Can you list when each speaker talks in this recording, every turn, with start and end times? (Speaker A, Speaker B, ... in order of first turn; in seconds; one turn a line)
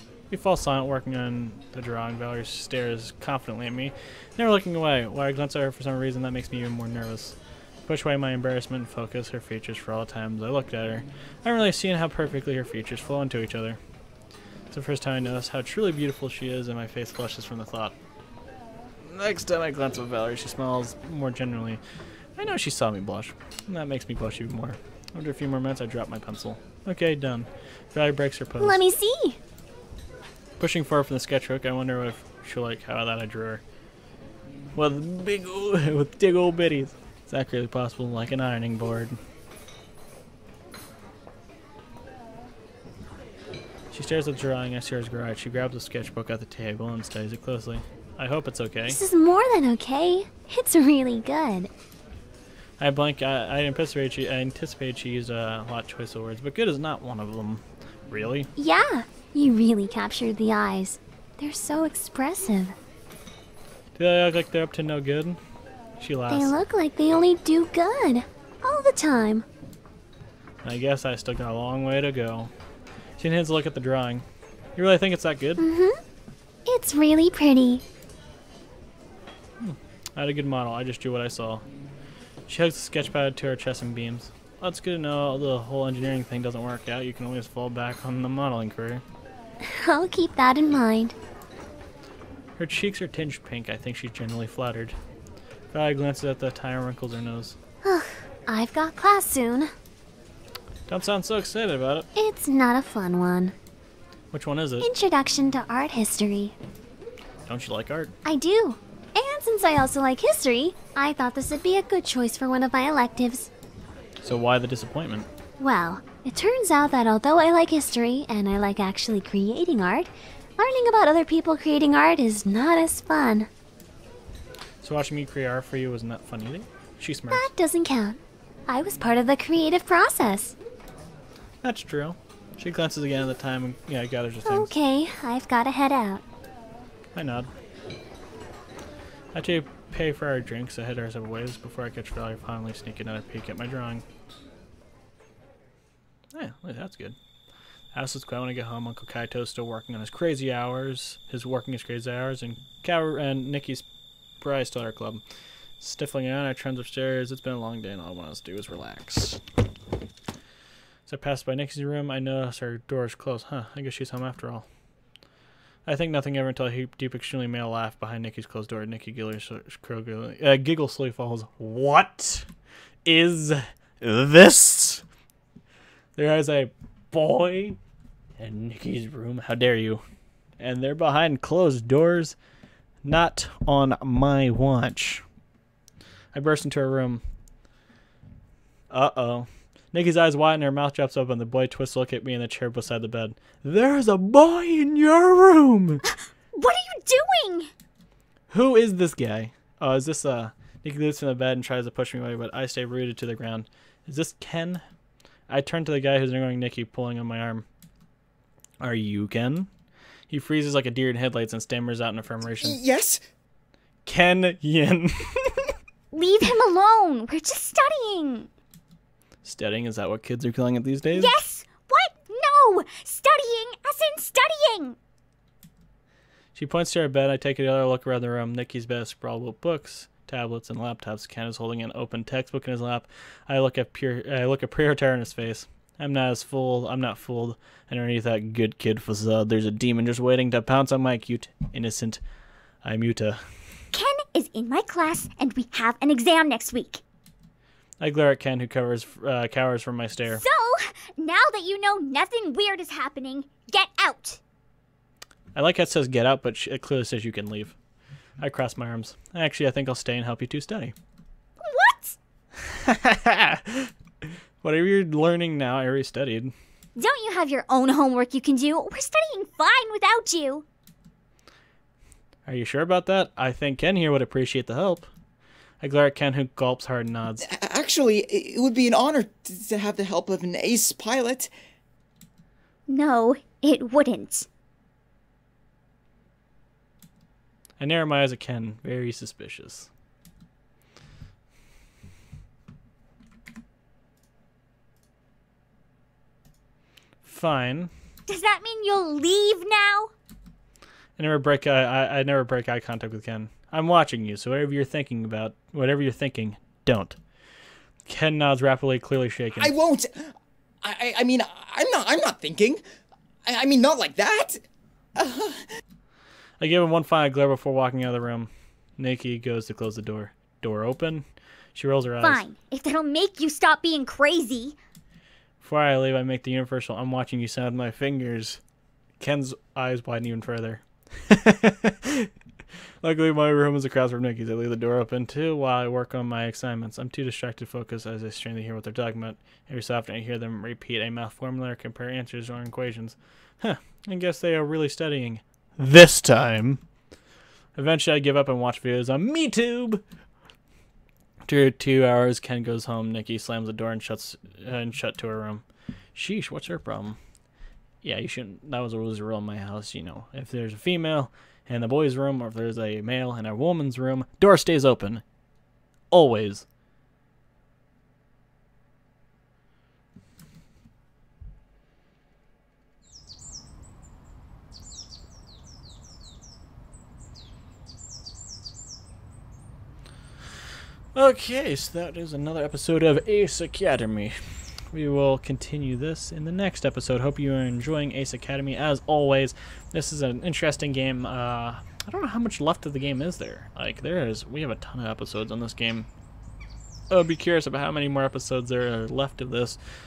Speaker A: 0.3-13.8
Speaker A: 14.7-17.9
Speaker A: 19.0-21.8
Speaker A: 22.4-28.8
Speaker B: 28.6-29.4
Speaker A: 30.6-33.6
Speaker A: 34.8-39.2
Speaker A: 43.9-49.0
Speaker B: 48.9-51.7
Speaker A: 52.8-58.5
Speaker B: 58.6-62.8
Speaker A: 64.0-65.4
Speaker A: 66.0-66.6
Speaker B: 66.3-69.5
Speaker A: 70.6-72.5
Speaker A: 73.2-74.2
Speaker A: 74.8-75.6
Speaker B: 75.6-76.0
Speaker B: 76.7-77.8
Speaker A: 79.6-81.7
Speaker A: 82.5-89.0
Speaker B: 89.6-91.2
Speaker A: 92.6-95.0
Speaker A: 95.7-97.6
Speaker B: 97.8-99.7
Speaker A: 100.9-102.1
Speaker B: 102.2-103.5
Speaker A: 104.3-104.9
Speaker B: 104.8-106.6
Speaker A: 107.5-108.2
Speaker B: 108.2-113.5
Speaker A: 114.2-115.3
Speaker B: 115.6-123.5
Speaker A: 124.8-127.5
Speaker B: 127.3-130.6
Speaker A: 131.6-134.7
Speaker B: 134.4-136.2
Speaker A: 137.2-137.5
Speaker A: 139.3-144.1
Speaker A: 146.3-147.2
Speaker A: 147.9-153.8
Speaker A: 154.4-155.2
Speaker A: 155.8-159.4
Speaker A: 161.1-164.7
Speaker A: 165.9-172.5
Speaker A: 173.1-175.0
Speaker A: 176.2-177.8
Speaker A: 178.4-180.0
Speaker A: 180.6-182.4
Speaker A: 183.0-185.2
Speaker A: 186.3-187.2
Speaker A: 188.9-196.0
Speaker C: 196.6-197.7
Speaker A: 198.5-204.8
Speaker A: 205.5-207.7
Speaker A: 208.8-209.7
Speaker A: 210.3-212.8
Speaker D: 212.6-213.2
Speaker A: 214.1-215.7
Speaker C: 216.1-218.5
Speaker A: 219.4-221.3
Speaker C: 221.1-225.0
Speaker A: 226.6-242.2
Speaker A: 242.8-243.4
Speaker C: 243.9-247.0
Speaker A: 248.0-250.4
Speaker C: 250.3-254.4
Speaker A: 255.6-257.8
Speaker A: 258.4-260.9
Speaker C: 261.6-262.2
Speaker A: 262.6-263.9
Speaker A: 264.6-266.5
Speaker C: 267.0-270.6
Speaker A: 272.5-275.1
Speaker A: 275.8-277.5
Speaker D: 277.5-281.5
Speaker C: 282.9-284.5
Speaker A: 287.8-289.9
Speaker A: 297.2-297.9
Speaker C: 298.3-300.1
Speaker A: 301.2-307.2
Speaker A: 308.1-309.8
Speaker D: 309.6-312.8
Speaker D: 313.5-314.6
Speaker D: 315.2-315.7
Speaker A: 316.6-322.4
Speaker C: 322.2-324.8
Speaker A: 325.6-328.6
Speaker A: 329.2-332.3
Speaker A: 333.0-346.8
Speaker A: 347.8-350.0
Speaker A: 351.4-357.2
Speaker A: 358.0-365.2
Speaker A: 366.1-366.6
Speaker A: 381.1-396.1
Speaker A: 397.1-399.8